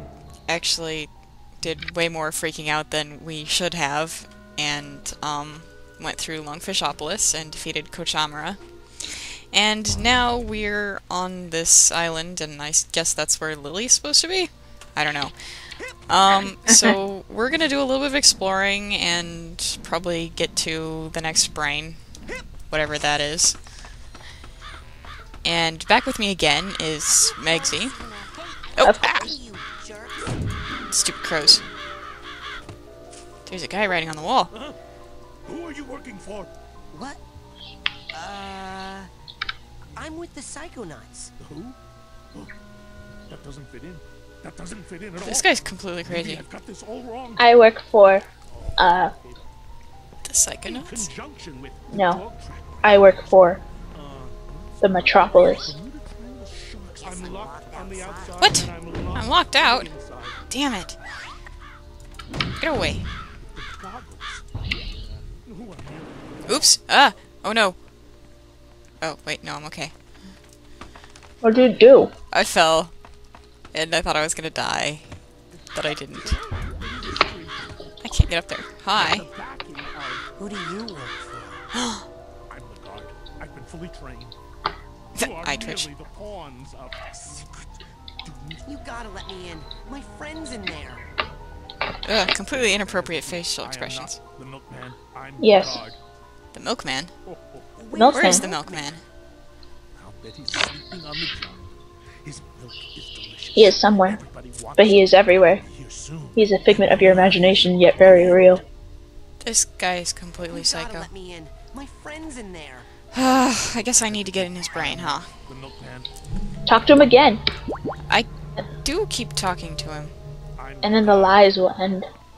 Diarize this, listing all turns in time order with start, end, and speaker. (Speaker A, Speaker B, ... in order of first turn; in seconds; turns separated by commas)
Speaker A: 0.5-22.1, Speaker A: 22.7-23.6, Speaker A: 25.4-28.0, Speaker B: 27.1-30.4, Speaker A: 28.8-29.3, Speaker A: 30.9-31.6, Speaker A: 33.5-34.5, Speaker C: 35.5-36.5, Speaker B: 36.9-37.2, Speaker B: 38.1-39.1, Speaker B: 40.0-41.3, Speaker C: 41.4-41.8, Speaker C: 43.3-47.5, Speaker A: 45.2-46.4, Speaker D: 47.4-48.2, Speaker C: 48.5-49.5, Speaker D: 48.8-49.1, Speaker A: 50.2-51.1, Speaker C: 50.6-53.0, Speaker D: 51.9-52.2, Speaker D: 52.8-53.6, Speaker C: 53.9-60.4, Speaker D: 54.8-55.8, Speaker B: 56.9-58.5, Speaker A: 58.4-59.9, Speaker A: 60.5-61.0, Speaker A: 62.6-63.0, Speaker C: 63.5-64.4, Speaker C: 65.0-66.7, Speaker A: 66.5-67.8, Speaker A: 69.0-69.9, Speaker D: 71.4-72.1, Speaker A: 72.3-72.9, Speaker A: 73.7-75.1, Speaker A: 75.7-76.4, Speaker C: 76.5-77.7, Speaker A: 78.0-79.3, Speaker C: 78.9-80.3, Speaker B: 80.4-81.7, Speaker A: 81.7-82.1, Speaker C: 82.5-84.4, Speaker A: 85.2-85.9, Speaker C: 85.2-88.6, Speaker B: 88.7-91.1, Speaker A: 92.0-94.2, Speaker C: 92.2-96.0, Speaker D: 95.4-95.8, Speaker A: 96.5-97.1, Speaker C: 97.3-97.7, Speaker B: 97.8-98.9, Speaker D: 97.9-98.5, Speaker A: 98.1-99.0, Speaker C: 100.0-101.7, Speaker C: 102.2-108.5, Speaker D: 103.5-104.2, Speaker D: 104.8-105.7, Speaker D: 106.4-108.6, Speaker A: 109.4-111.1, Speaker B: 110.5-112.9, Speaker A: 113.1-115.3, Speaker C: 114.0-116.1, Speaker D: 116.7-117.4, Speaker A: 118.8-120.1, Speaker C: 120.6-121.5, Speaker D: 120.8-122.1